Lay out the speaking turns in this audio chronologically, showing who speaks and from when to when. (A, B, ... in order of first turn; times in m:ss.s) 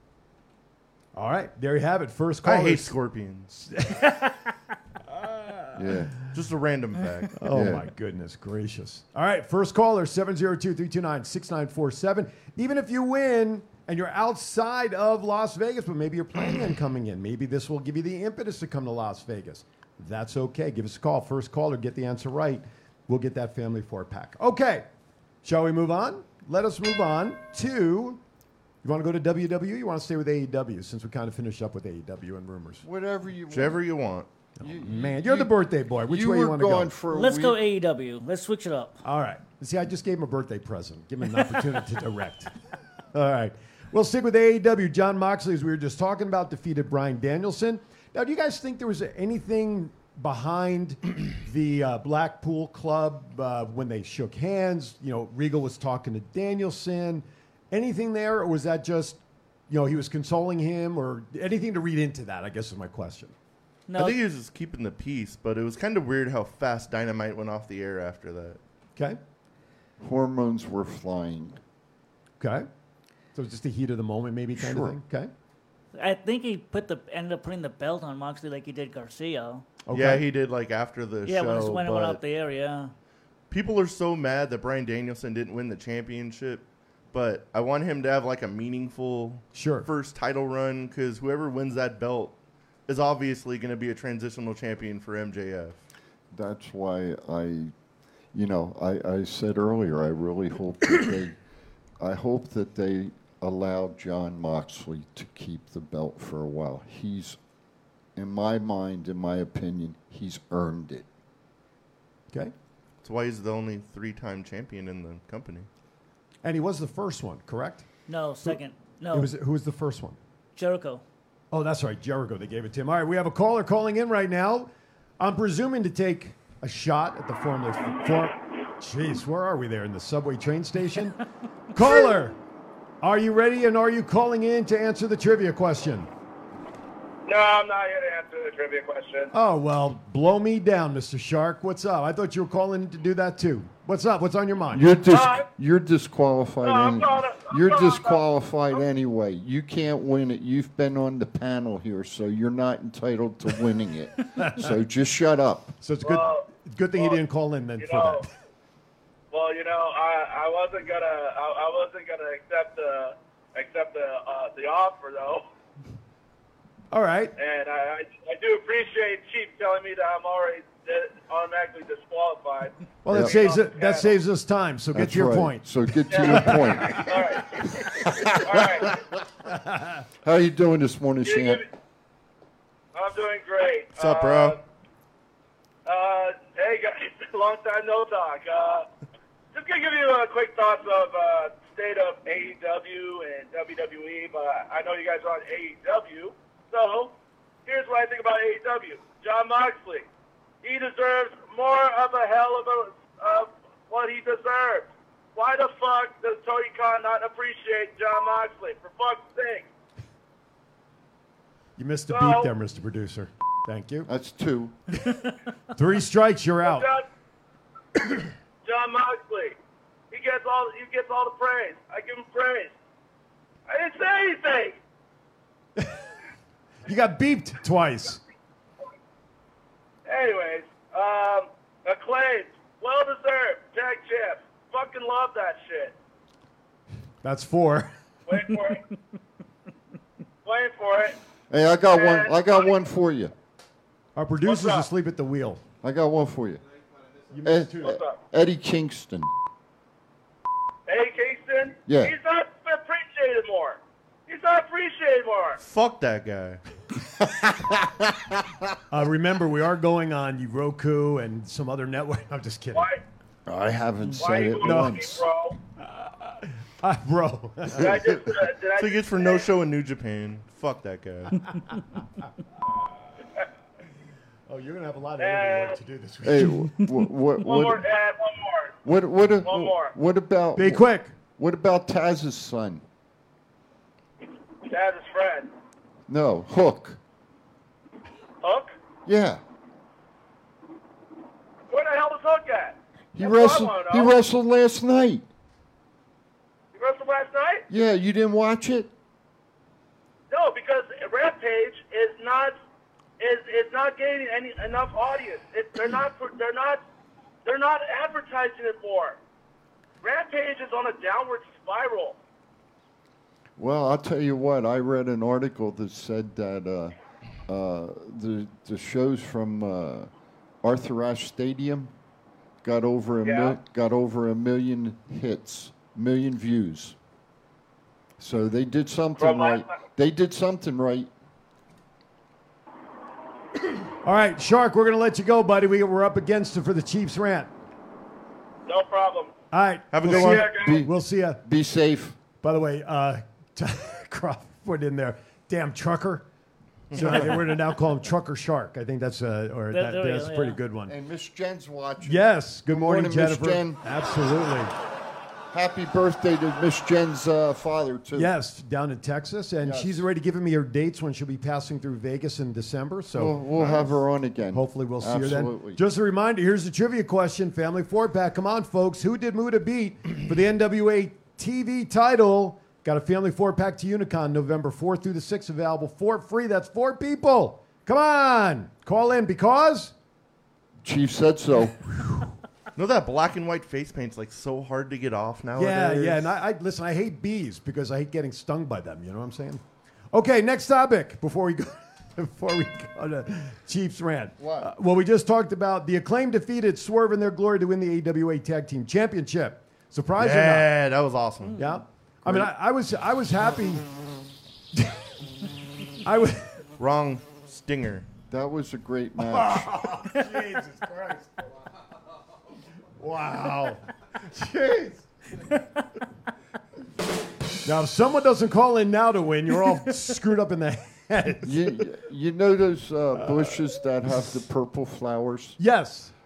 0:01.1-0:02.9 A
0:02.4-0:03.5 B
0:03.5-0:04.3 A
0:05.1-0:05.9 A
0:05.7-0:06.1 C
0:06.3-0:07.3 B
0:07.4-0:24.9 A
0:07.5-0:07.9 C
0:25.4-0:28.2 A
0:28.8-0:32.8 A
0:32.8-0:33.8 C
0:33.5-0:34.3 B
0:34.6-0:36.9 A
0:34.6-0:37.6 C
0:37.1-0:39.0 D
0:39.0-0:42.5 A
0:43.1-1:03.3 A
1:03.9-1:04.2 D
1:03.9-1:08.6 B
1:10.0-1:11.6 C
1:12.4-1:12.7 A
1:13.3-1:15.3 A
1:14.6-1:15.0 C
1:15.9-1:19.7 D
1:19.8-1:20.2 A
1:19.9-1:22.2 B
1:21.2-1:22.9 D
1:23.5-1:32.3 B
1:29.5-1:29.9 A
1:32.9-1:35.8 B
1:36.3-1:37.7 C
1:38.3-1:41.4 C
1:42.0-1:47.4 C
1:48.2-1:51.0 C
1:53.0-1:55.7 B
1:56.4-1:57.9 A
1:58.1-1:59.3 D
1:59.1-2:00.2 A
2:00.6-2:01.0 D
2:01.5-2:11.2 A
2:11.7-2:12.4 A
2:13.0-2:16.1 A
2:17.3-2:19.3 E
2:19.3-2:24.8 A
2:24.7-2:35.8 C
2:25.1-2:25.4 E
2:26.6-2:28.2 E
2:34.4-2:34.7 A
2:35.8-2:38.3 A
2:36.0-2:37.2 E
2:37.8-2:38.2 E
2:39.3-2:45.4 E
2:46.9-2:47.3 A
2:47.4-2:54.2 E
2:53.0-2:55.6 A
2:53.1-2:53.4 C
2:54.9-2:59.0 C
2:56.1-2:57.5 E
2:56.2-2:57.0 A
2:58.4-2:58.9 E
2:59.5-3:00.0 A
3:00.2-3:01.6 C
3:01.2-3:01.6 E
3:02.9-3:04.6 E
3:04.0-3:04.6 B
3:05.8-3:08.9 E
3:09.5-3:17.1 E
3:17.6-3:20.1 E
3:20.6-3:29.7 E
3:31.8-3:34.1 A
3:32.1-3:32.5 E
3:34.0-3:34.7 C
3:35.7-3:36.8 A
3:36.6-3:37.0 E
3:38.6-3:39.5 E
3:40.1-3:42.7 E
3:43.7-3:44.7 E
3:46.8-3:48.2 A
3:50.1-3:55.9 E
3:57.2-3:57.9 A
3:58.3-3:58.8 E
4:00.4-4:01.2 E
4:01.5-4:03.3 C
4:01.9-4:02.8 E
4:04.2-4:05.6 A
4:04.4-4:04.9 E
4:05.8-4:06.6 C
4:07.3-4:08.0 A
4:07.4-4:09.3 C
4:07.8-4:08.2 E
4:10.9-4:15.6 E
4:11.8-4:12.1 C
4:15.6-4:16.6 B
4:18.9-4:22.9 A
4:22.7-4:23.0 E
4:23.4-4:25.2 C
4:24.2-4:25.6 E
4:24.6-4:25.2 A
4:25.8-4:27.9 A
4:27.8-4:29.4 E
4:27.8-4:28.1 C
4:28.8-4:31.4 B
4:34.5-4:36.7 A
4:35.2-4:35.8 E
4:36.2-4:37.8 C
4:37.4-4:38.7 E
4:38.8-4:42.8 C
4:39.4-4:39.9 E
4:40.6-4:41.1 A
4:44.6-4:45.5 E
4:46.1-4:47.0 C
4:48.4-4:48.7 E
4:49.0-4:49.4 C
4:51.7-4:54.1 E
4:53.1-4:55.2 C
4:56.7-4:57.6 E
4:57.7-4:58.9 C
5:00.3-5:02.6 E
5:03.2-5:06.8 E
5:07.4-5:09.2 E
5:10.0-5:12.2 E
5:13.6-5:16.9 C
5:17.5-5:20.1 C
5:20.6-5:21.9 C
5:22.6-5:27.0 C
5:23.2-5:23.5 E
5:28.2-5:31.1 C
5:29.2-5:29.8 E
5:34.0-5:37.5 A
5:38.7-5:39.3 E
5:39.5-5:41.4 A
5:39.9-5:40.5 B
5:40.1-5:40.7 E
5:40.4-5:40.9 C
5:41.4-5:42.2 C
5:42.4-5:46.2 A
5:46.9-5:47.4 B
5:46.9-5:50.9 A
5:49.7-5:50.6 D
5:50.9-5:53.8 C
5:52.0-5:54.7 A
5:55.5-5:58.3 C
5:58.1-6:03.8 A
5:59.6-6:00.0 C
6:03.1-6:05.8 C
6:04.5-6:19.9 A
6:20.8-6:21.8 C
6:22.8-6:26.3 B
6:25.6-6:29.6 A
6:30.1-6:40.7 A
6:34.4-6:34.7 C
6:40.2-6:41.6 B
6:41.6-6:43.8 A
6:46.0-6:46.6 A
6:46.8-6:48.1 B
6:48.3-6:49.7 C
6:49.2-6:51.3 A
6:53.0-6:55.0 A
6:57.6-7:01.6 A
7:01.4-7:05.6 C
7:05.6-7:06.1 A